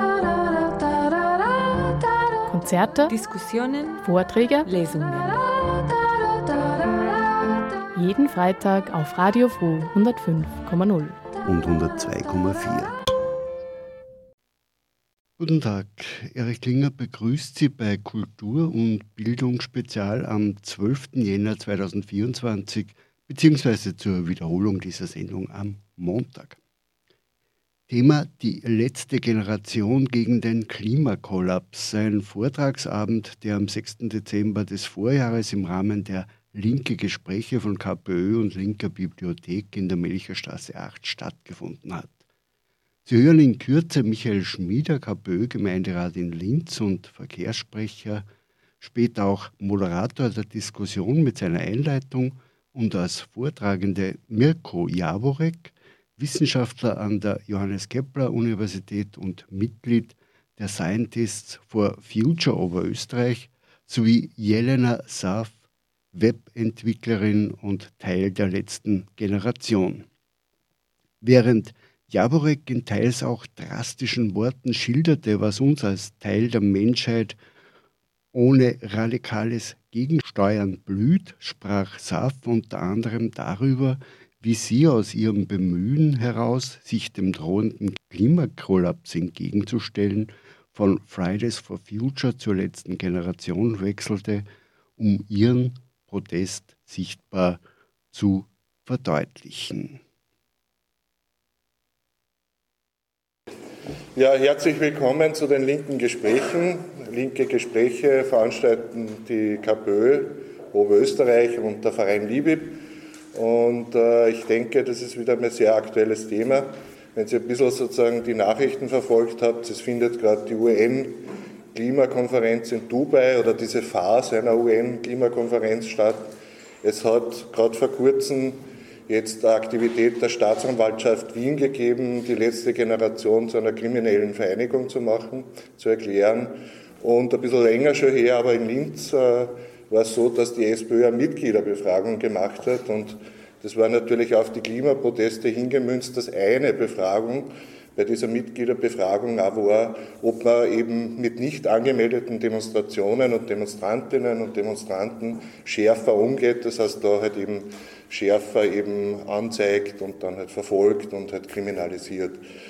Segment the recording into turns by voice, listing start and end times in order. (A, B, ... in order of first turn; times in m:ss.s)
0:02.4-0:03.1 A
0:03.1-0:04.0 B
0:04.0-0:04.7 A
0:04.6-0:05.6 B
0:07.9-0:11.2 A
0:11.4-0:12.9 C
0:15.4-0:26.6 C
0:27.9-0:42.2 C
0:43.0-0:48.2 C
0:48.8-1:05.6 C
1:06.1-1:10.1 C
1:11.2-1:17.4 C
1:18.3-1:34.4 C
1:35.0-1:40.0 C
1:44.1-2:06.3 D
2:06.8-2:42.4 D